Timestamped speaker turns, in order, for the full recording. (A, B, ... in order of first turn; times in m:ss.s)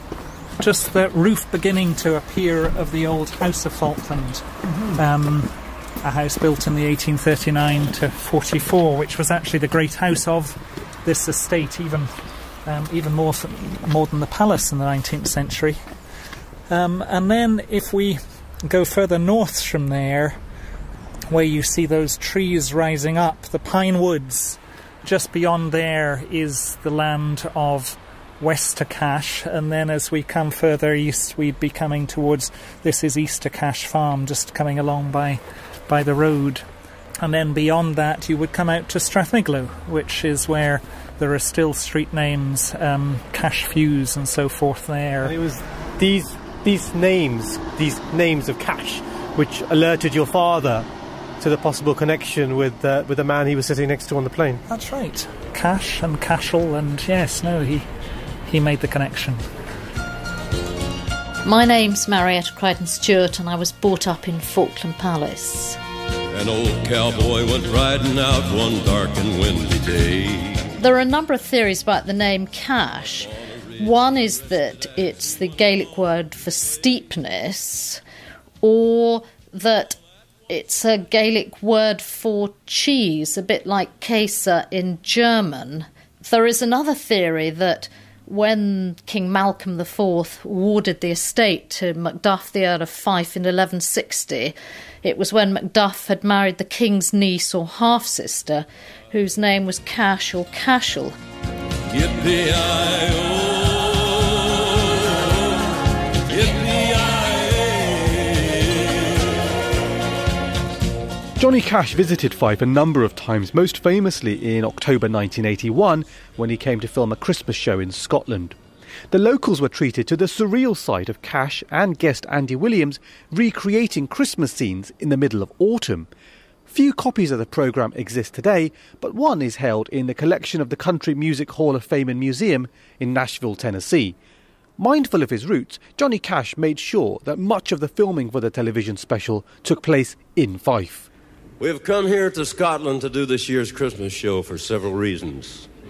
0:00.6-0:12.1 A
0:12.6-0:15.8 A
0:16.7-0:20.4 A
0:21.3-0:36.6 A
0:37.2-0:45.3 A
0:45.2-0:50.9 B
0:51.4-0:54.6 B
0:54.7-0:57.9 A
0:58.4-0:59.4 A
1:01.4-1:05.8 C
1:06.3-1:10.7 D
1:10.8-1:18.0 C
1:18.6-1:20.0 C
1:20.5-1:41.1 C
1:41.9-1:45.4 D
1:46.3-1:48.9 D
1:51.4-1:58.6 B
1:59.1-2:06.1 B
2:06.7-2:14.2 B
2:14.8-2:21.1 B
2:21.6-2:25.7 D